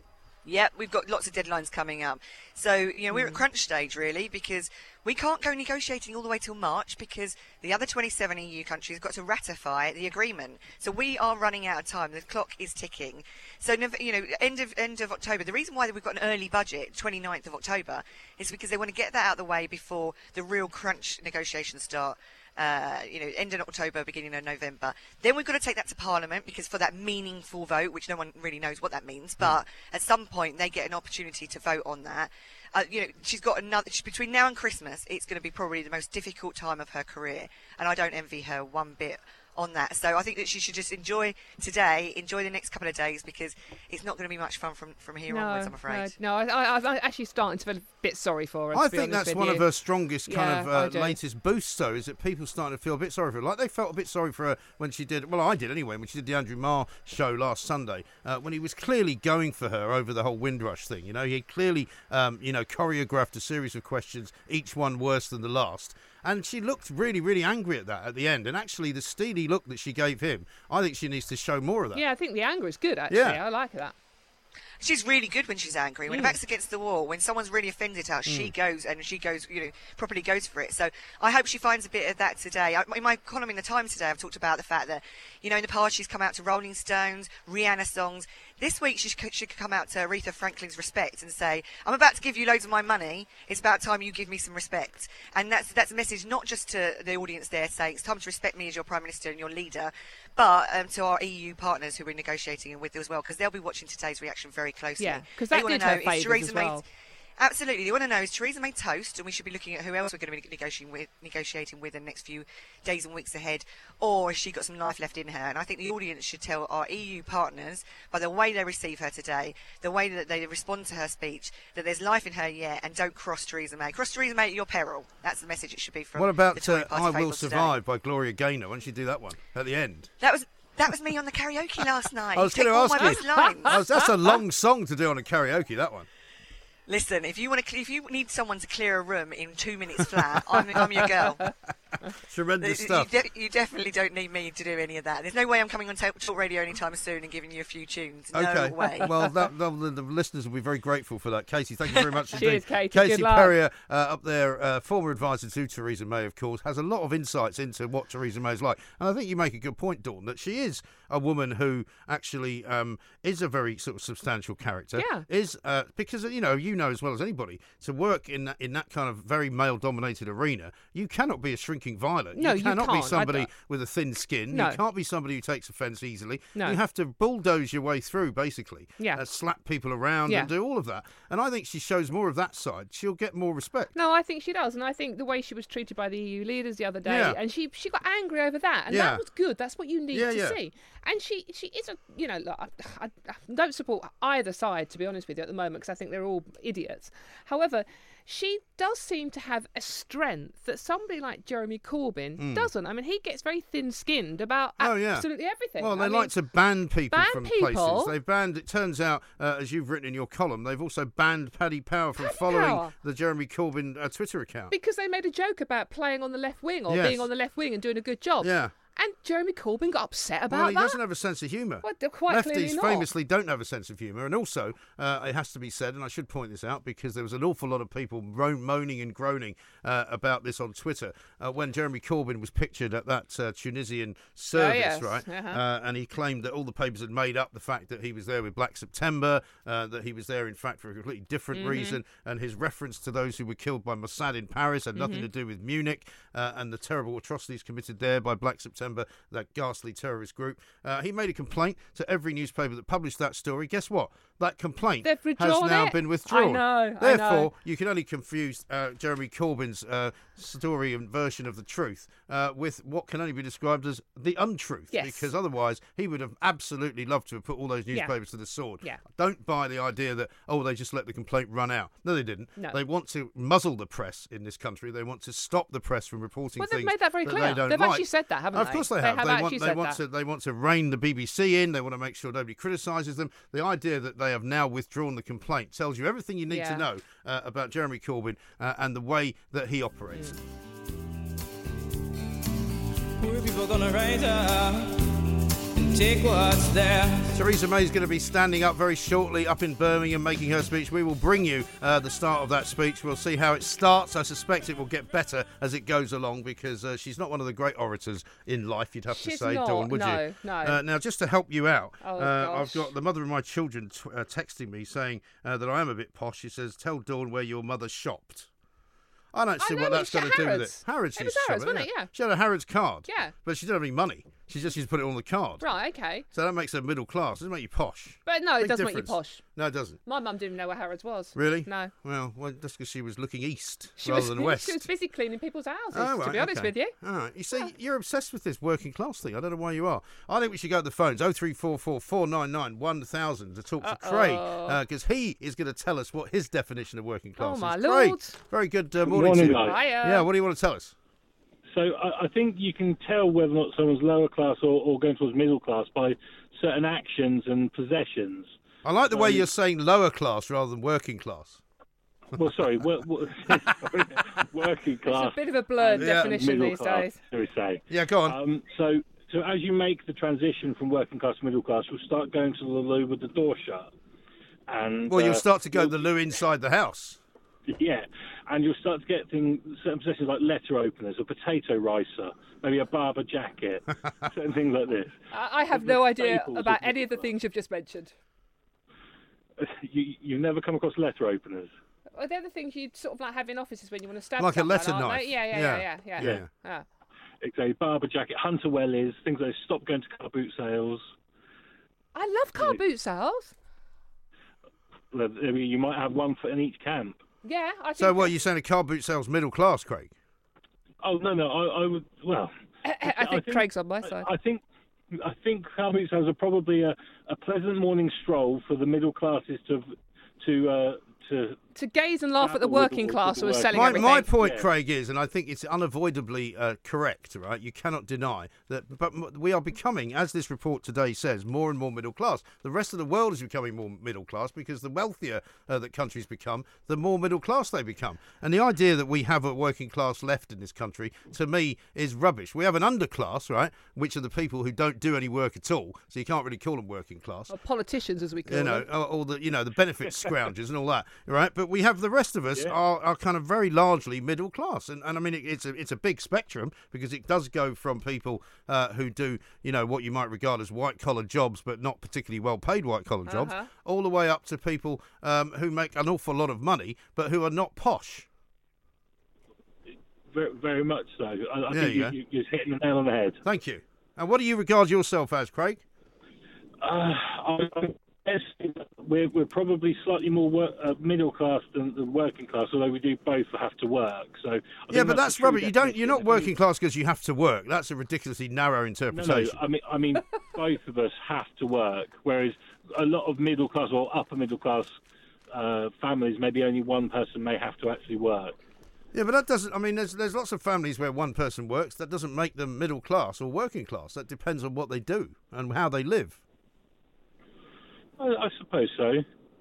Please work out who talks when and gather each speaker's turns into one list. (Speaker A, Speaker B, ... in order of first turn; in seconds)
Speaker A: 0.5-46.2, 74.8-106.8, 107.4-127.7, 130.2-133.8, 136.9-141.5, 142.6-149.1
Speaker B: 3.1-3.4, 45.3-49.6, 50.3-51.2, 71.9-73.9, 76.1-76.4, 105.0-106.8, 133.0-133.7, 149.0-149.3, 152.4-153.5, 165.0-165.2, 172.3-173.5, 174.5-174.8, 176.6-176.8, 183.9-206.3, 207.1-208.1, 212.2-212.9, 214.7-221.0, 221.8-223.1, 234.5-235.6, 241.5-242.0, 244.9-245.3, 255.0-257.5, 264.9-265.3, 276.6-280.0, 286.5-286.8, 290.1-290.4, 309.1-310.8, 312.0-312.9, 319.6-322.1, 323.1-323.3, 325.6-326.3, 328.3-329.4, 330.1-331.9, 334.0-336.9, 343.8-344.8, 347.4-348.4, 349.5-350.3, 365.1-367.2, 385.3-388.1, 392.1-396.9, 402.1-403.5, 407.4-408.3, 412.8-414.3, 421.8-424.3, 447.5-448.9, 463.3-463.7
Speaker C: 48.7-72.0, 73.1-73.4, 78.3-78.5, 126.2-130.1, 132.3-136.1, 142.1-143.1, 148.3-183.9, 187.0-187.4, 188.9-189.2, 190.1-190.6, 202.4-202.7, 204.8-214.7, 216.9-217.3, 218.4-218.7, 220.5-290.4, 297.3-318.5, 319.3-325.6, 326.3-330.0, 331.4-334.9, 335.9-350.9, 358.8-361.6, 366.0-366.4, 367.9-368.4, 375.1-377.2, 394.4-396.5, 408.0-410.1, 423.7-447.5, 448.5-468.3, 471.7-472.2, 473.4-475.8, 484.9-489.6, 499.1-506.4
Speaker D: 293.2-295.2, 295.8-297.4
Speaker E: 349.0-349.8, 351.7-358.6, 359.1-359.5, 362.3-373.9, 374.7-376.0, 377.7-385.2, 385.7-387.3, 389.6-391.7, 397.4-401.0, 405.1-407.2, 411.0-412.5, 413.0-421.6, 422.4-424.7, 470.3-473.4, 476.8-486.5, 489.1-494.9, 495.5-498.6, 508.2-509.2